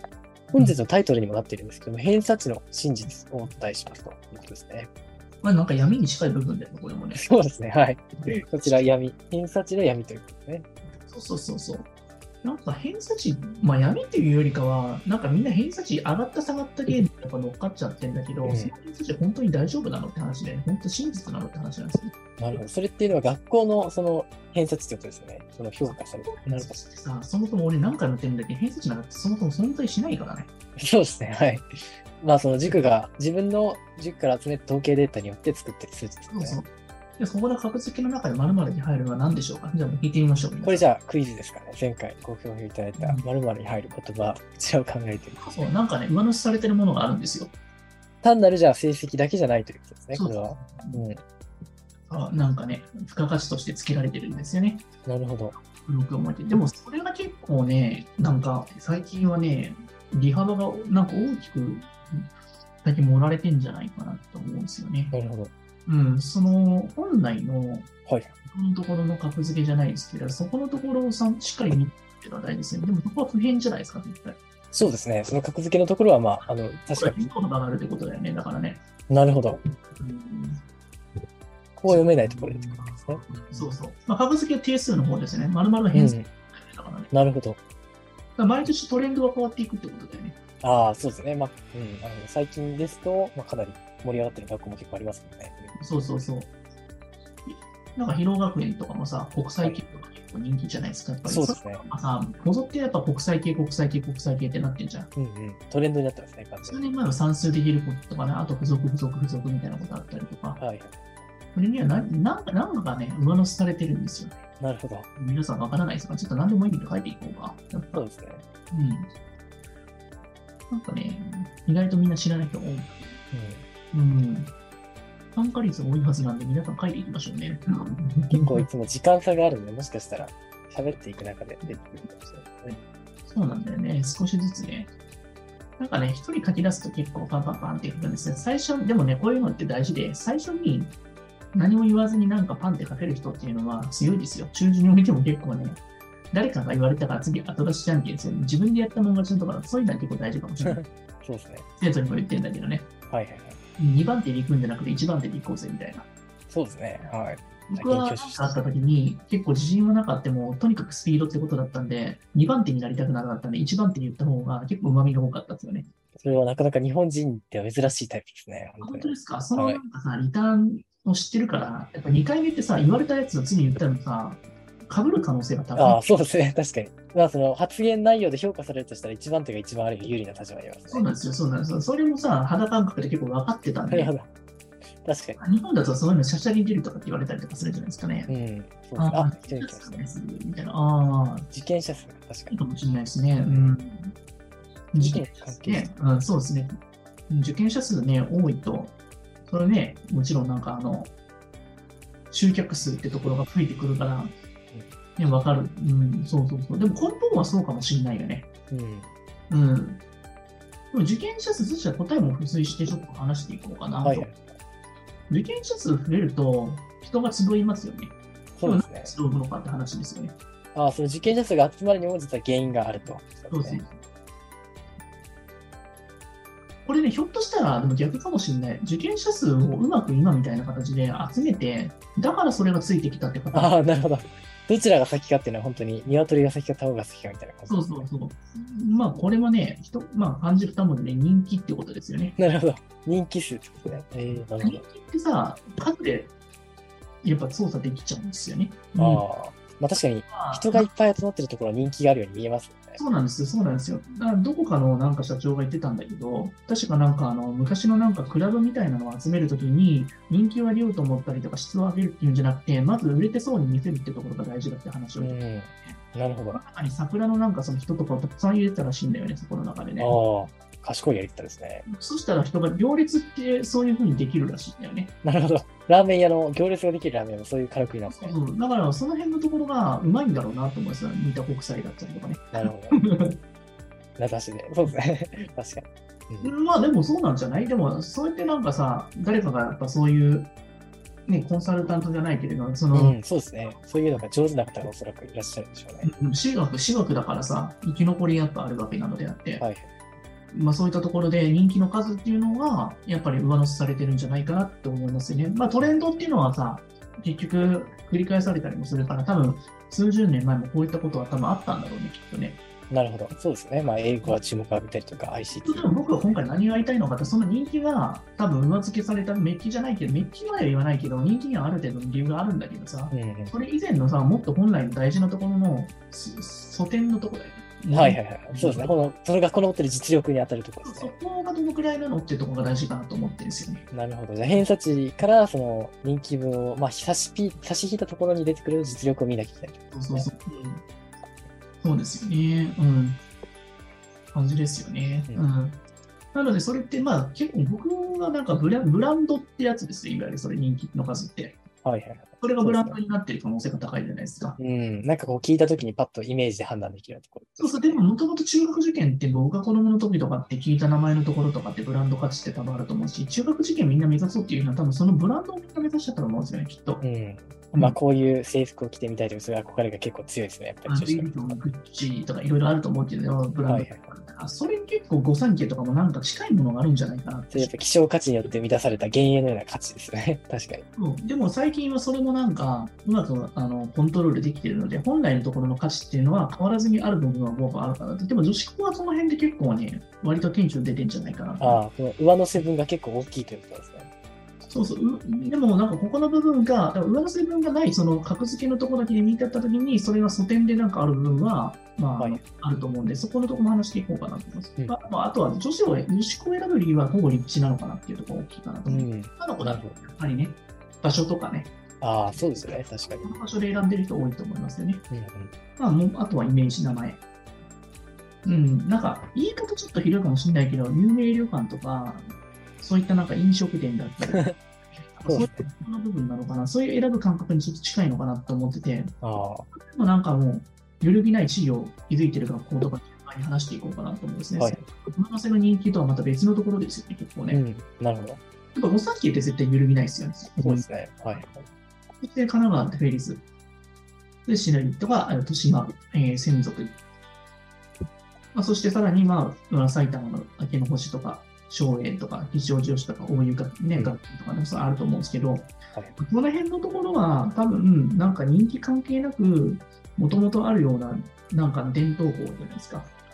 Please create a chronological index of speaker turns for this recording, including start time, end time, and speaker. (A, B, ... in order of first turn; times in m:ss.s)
0:00.6-0:04.9 A
0:05.4-0:07.2 B
0:07.1-0:10.7 A
0:11.1-0:11.9 B
0:12.4-0:22.1 B
0:18.4-0:18.7 A
0:22.4-0:26.8 A
0:25.8-0:30.5 B
0:30.8-0:36.6 A
0:36.3-0:40.9 B
0:40.6-0:45.7 A
0:43.0-0:43.2 B
0:45.4-0:47.5 B
0:48.2-0:51.2 A
0:50.1-0:51.0 B
0:52.1-0:54.8 B
0:55.1-0:55.6 A
0:55.8-1:02.3 B
1:02.8-1:05.2 B
1:05.1-1:05.5 A
1:05.9-1:07.9 B
1:08.1-1:08.3 A
1:08.4-1:14.4 B
1:14.7-1:17.3 A
1:16.9-1:18.8 B
1:19.1-1:19.6 A
1:20.0-1:20.6 B
1:21.8-1:23.7 A
1:21.9-1:27.1 B
1:25.9-1:26.3 A
1:27.1-1:27.6 A
1:28.4-1:30.4 B
1:30.6-1:35.8 A
1:35.8-1:36.5 B
1:37.5-1:45.1 B
1:41.3-1:41.9 A
1:45.2-1:46.9 A
1:46.6-1:50.6 B
1:50.6-1:51.1 A
1:51.6-1:54.4 B
1:54.6-1:55.1 A
1:55.2-1:58.0 B
1:57.9-1:58.4 A
1:58.7-1:59.1 B
2:00.7-2:03.1 B
2:03.3-2:03.6 A
2:03.9-2:04.5 B
2:05.4-2:08.6 B
2:08.3-2:12.8 A
2:13.3-2:14.9 B
2:15.8-2:21.0 B
2:21.5-2:30.8 B
2:30.6-2:31.7 A
2:31.8-2:32.9 B
2:33.1-2:33.6 A
2:33.8-2:36.1 B
2:36.5-2:38.6 A
2:37.7-2:45.9 B
2:46.2-2:49.8 A
2:48.8-2:56.0 B
2:55.8-3:01.1 A
3:00.9-3:04.1 B
3:03.9-3:04.3 A
3:05.0-3:05.4 A
3:05.4-3:08.3 B
3:08.3-3:10.1 A
3:09.0-3:11.5 B
3:11.5-3:12.6 A
3:12.5-3:14.1 B
3:13.5-3:13.8 A
3:14.9-3:16.8 B
3:15.0-3:15.9 A
3:17.3-3:18.9 B
3:19.5-3:21.1 B
3:22.3-3:24.3 B
3:25.2-3:28.5 B
3:28.7-3:29.1 A
3:29.5-3:30.0 B
3:30.9-3:34.3 B
3:34.0-3:34.5 A
3:35.3-3:40.4 B
3:38.6-3:39.1 A
3:40.7-3:43.8 A
3:43.5-3:44.0 B
3:46.8-3:53.8 B
3:53.5-3:58.0 A
3:57.7-4:02.4 B
4:02.4-4:04.8 A
4:04.6-4:06.3 B
4:07.2-4:09.2 B
4:09.0-4:13.0 A
4:10.3-4:10.9 B
4:13.0-4:26.0 B
4:25.2-4:26.6 A
4:26.5-4:30.2 B
4:30.0-4:31.9 A
4:31.9-4:35.1 B
4:35.2-4:38.4 A
4:38.1-4:43.4 B
4:42.5-4:43.0 A
4:44.2-4:46.5 A
4:46.4-4:50.5 B
4:51.3-4:53.2 B
4:52.9-4:56.1 A
4:56.0-4:59.6 B
4:59.6-4:59.9 A
5:00.5-5:12.6 B
5:12.9-5:15.9 A
5:15.6-5:28.9 B
5:23.1-5:23.5 A
5:27.9-5:31.2 A
5:30.8-5:33.8 B
5:33.9-5:40.3 A
5:39.9-5:40.8 B
5:41.8-5:43.2 B
5:44.3-5:45.8 B
5:46.3-5:51.6 B
5:51.8-5:53.0 A
5:52.4-5:54.6 B
5:54.6-5:58.0 A
5:57.6-6:07.0 B
6:07.0-6:11.6 A
6:10.9-6:17.7 B
6:13.7-6:14.1 A
6:17.5-6:20.9 A
6:21.0-6:31.8 B
6:31.6-6:34.1 A
6:34.7-6:51.7 B
6:48.9-6:50.0 A
6:52.0-6:53.4 A
6:53.0-6:55.0 B
6:55.1-6:55.6 A
6:55.8-6:57.2 B
6:58.4-7:02.3 B
7:02.8-7:04.5 B
7:05.1-7:09.1 B
7:05.2-7:05.7 A
7:09.2-7:09.7 A
7:09.7-7:17.6 B
7:17.5-7:18.4 A
7:18.7-7:21.4 B
7:20.6-7:21.6 A
7:22.2-7:23.4 B
7:24.5-7:27.0 B
7:28.5-7:43.1 B